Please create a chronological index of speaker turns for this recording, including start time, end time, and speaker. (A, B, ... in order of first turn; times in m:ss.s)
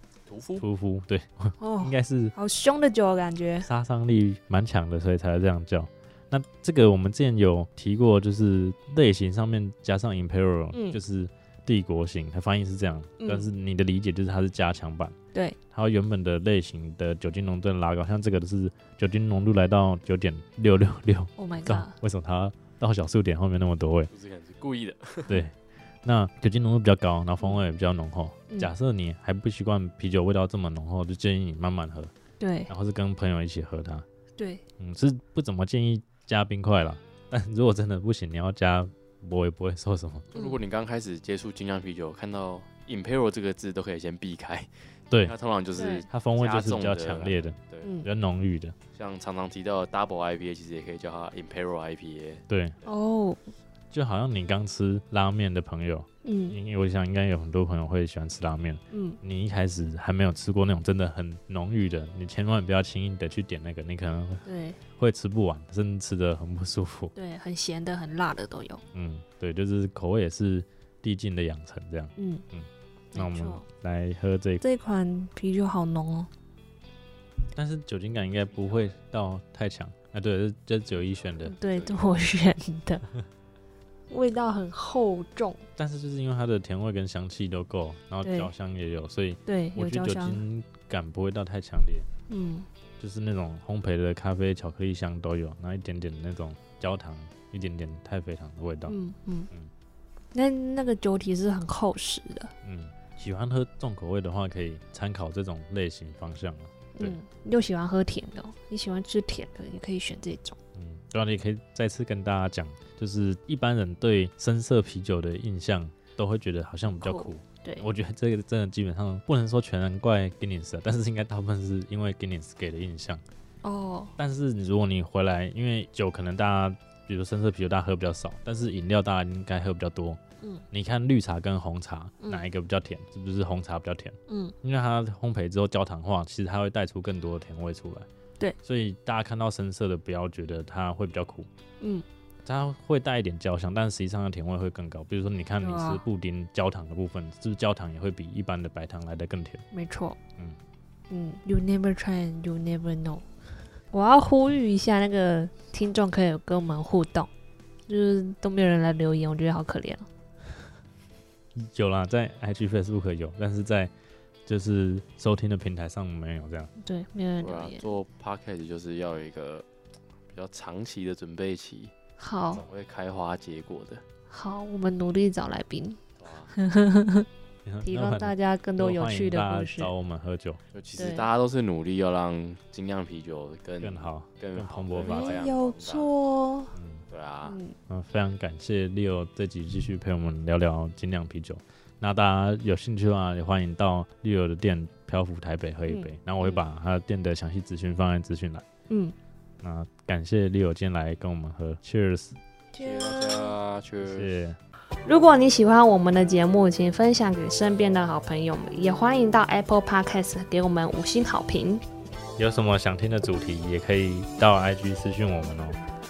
0:00.2-0:00.6 A
0:00.6-0:02.3 B
0:01.6-0:03.7 C
0:03.6-0:15.1 B
0:10.7-0:11.0 C
0:13.2-0:13.4 C
0:15.7-0:24.1 B
0:21.4-0:21.9 C
0:24.1-0:25.3 A
0:25.3-0:32.1 B
0:32.4-0:32.7 C
0:32.7-0:34.0 B
0:34.4-0:34.6 C
0:34.8-0:40.3 B
0:40.3-0:47.9 A
0:40.3-0:40.6 C
0:45.8-0:46.0 C
0:46.1-0:48.7 B
0:47.8-0:48.1 C
0:48.9-0:52.9 A
0:52.5-0:52.8 B
0:52.8-0:53.4 C
0:53.9-1:07.1 B
0:56.2-0:56.6 C
0:58.9-0:59.2 C
1:04.4-1:04.8 C
1:07.1-1:08.8 C
1:08.9-1:14.6 B
1:12.2-1:12.4 C
1:13.1-1:13.6 C
1:14.6-1:16.3 C
1:17.5-1:21.5 B
1:18.4-1:19.0 A
1:20.9-1:22.2 A
1:21.4-1:23.1 C
1:24.1-1:25.6 C
1:25.8-1:32.1 B
1:28.2-1:28.5 C
1:29.4-1:30.4 C
1:32.3-1:32.7 C
1:33.0-1:39.0 B
1:38.9-1:39.5 C
1:40.3-1:42.5 C
1:42.6-1:47.2 B
1:46.9-1:50.6 C
1:50.7-2:03.2 B
1:57.0-1:57.9 C
2:03.6-2:04.1 C
2:04.2-2:10.2 B
2:10.7-2:18.1 B
2:14.3-2:14.5 C
2:18.6-2:21.5 B
2:22.4-2:29.6 B
2:25.6-2:26.0 C
2:29.7-2:30.2 C
2:31.1-2:33.2 C
2:33.9-2:37.3 C
2:37.9-2:40.1 C
2:41.6-2:43.9 B
2:44.5-2:46.7 B
2:46.8-2:47.9 C
2:47.4-2:49.6 A
2:50.3-2:51.9 A
2:52.2-2:52.6 C
2:52.5-2:54.0 A
2:54.3-2:56.0 C
2:56.2-2:56.5 A
2:56.5-2:57.3 C
2:57.6-3:00.6 B
2:57.8-2:59.9 C
3:00.7-3:06.1 A
3:01.0-3:01.3 C
3:03.8-3:05.4 B
3:05.0-3:06.7 C
3:06.7-3:07.0 B
3:07.1-3:07.6 A
3:07.4-3:07.7 C
3:07.9-3:18.6 B
3:15.9-3:16.6 C
3:18.9-3:19.1 C
3:19.6-3:22.4 B
3:22.7-3:23.6 C
3:22.8-3:24.3 A
3:24.0-3:24.6 B
3:25.0-3:31.8 C
3:32.4-3:35.8 B